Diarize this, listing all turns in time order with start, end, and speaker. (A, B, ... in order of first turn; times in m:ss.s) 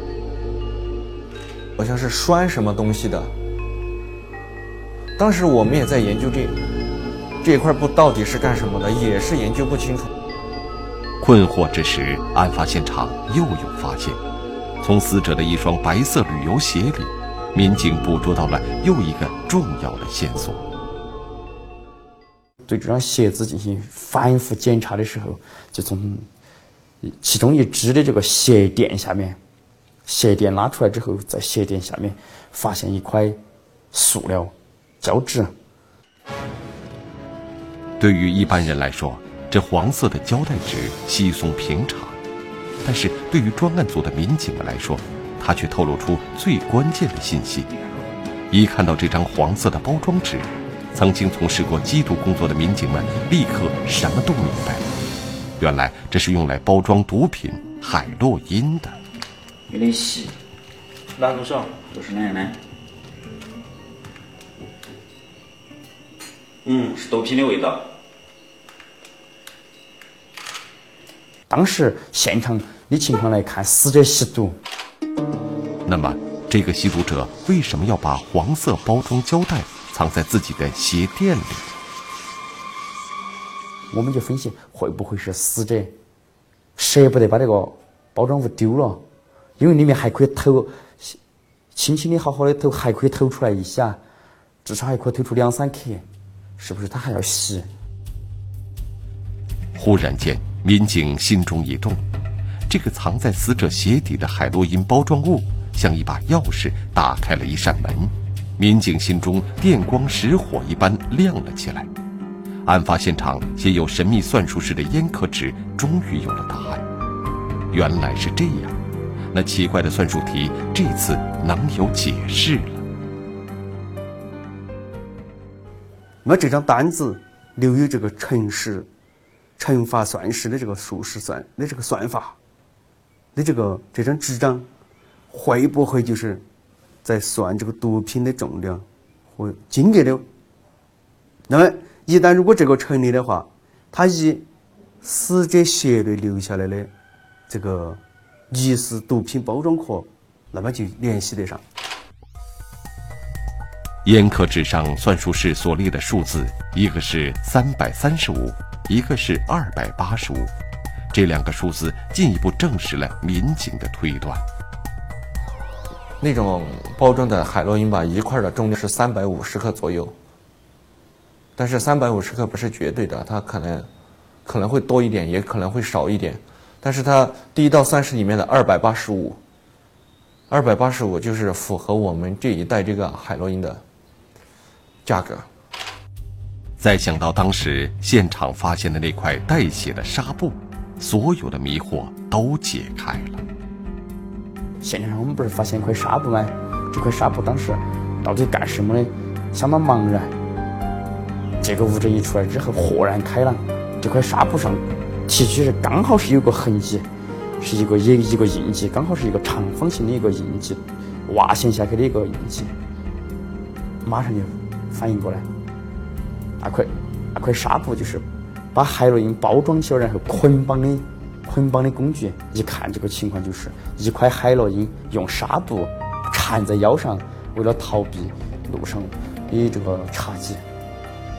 0:01.8-0:03.3 A
0:05.2-0:06.6 A
0:07.4-0:10.1 A
0:11.2-0:14.2 B
0:14.8-0:20.6 B
0:22.6-0:26.2 C
0:27.0-0:29.4 C
0:30.0-0:33.4 C
0:33.9-0:35.5 C
0:38.0-0:42.2 B
0:42.8-0:47.7 B
0:48.5-0:54.8 B
0:55.6-0:59.0 B
0:59.7-1:00.4 D
1:01.3-1:02.6 D
1:06.6-1:07.9 D
1:11.5-1:14.6 C
1:15.8-1:21.7 B
1:23.9-1:25.9 C
1:26.8-1:29.0 C
1:29.6-1:31.2 C
1:31.7-1:34.0 C
1:34.6-1:36.0 C
1:36.6-1:37.7 C
1:39.7-1:42.0 B
1:42.7-1:51.9 B
1:52.6-1:56.8 B
1:57.7-1:58.8 B
1:59.3-2:02.8 B
2:06.2-2:08.9 E
2:09.6-2:12.4 E
2:13.3-2:14.7 E
2:15.3-2:16.4 E
2:17.0-2:18.8 E
2:19.4-2:20.2 E
2:21.5-2:24.4 E
2:25.0-2:26.9 E
2:27.5-2:31.6 E
2:34.0-2:40.5 B
2:41.1-2:44.4 B
2:46.2-2:50.2 A
2:51.6-2:53.9 A
2:54.4-2:59.4 A
3:00.5-3:03.8 A
3:05.0-3:05.5 A
3:06.8-3:13.4 B
3:14.8-3:20.3 C
3:21.6-3:27.0 C
3:27.6-3:32.7 C
3:34.0-3:35.4 C
3:36.6-3:50.6 C